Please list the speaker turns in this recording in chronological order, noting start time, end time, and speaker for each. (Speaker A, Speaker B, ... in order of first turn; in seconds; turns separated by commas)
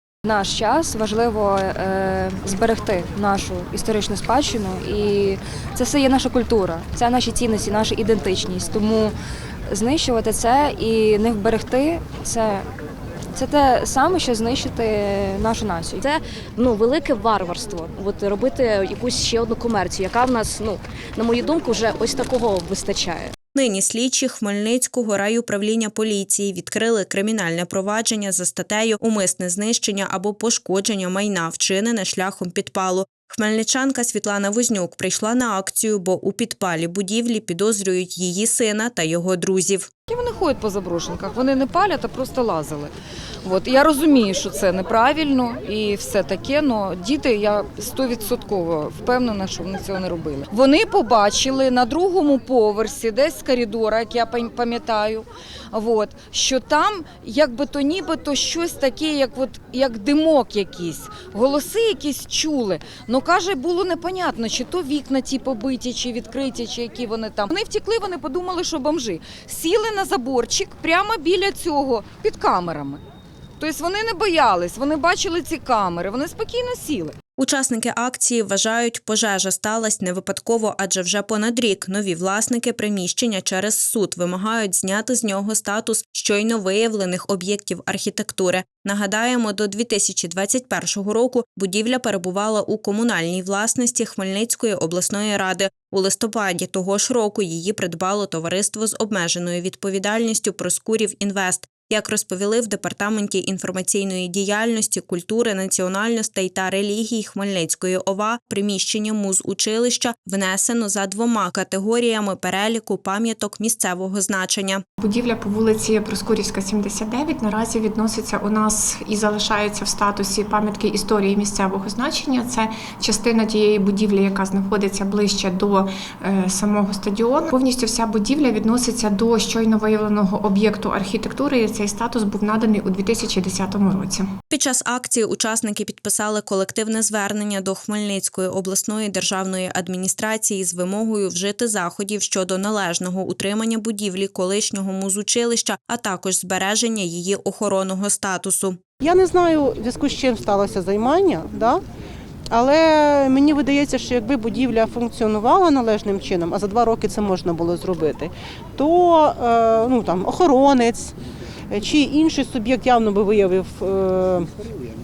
Speaker A: 0.2-9.1, Speaker A: 9.7-12.7, Speaker A: 13.3-16.1, Speaker B: 16.0-23.3, Speaker C: 23.5-39.9, Speaker D: 40.1-42.9, Speaker D: 43.4-73.0, Speaker D: 73.6-77.2, Speaker C: 77.4-114.8, Speaker E: 115.0-134.2, Speaker C: 134.5-148.8, Speaker F: 149.0-151.8, Speaker F: 152.5-161.1, Speaker F: 161.7-164.5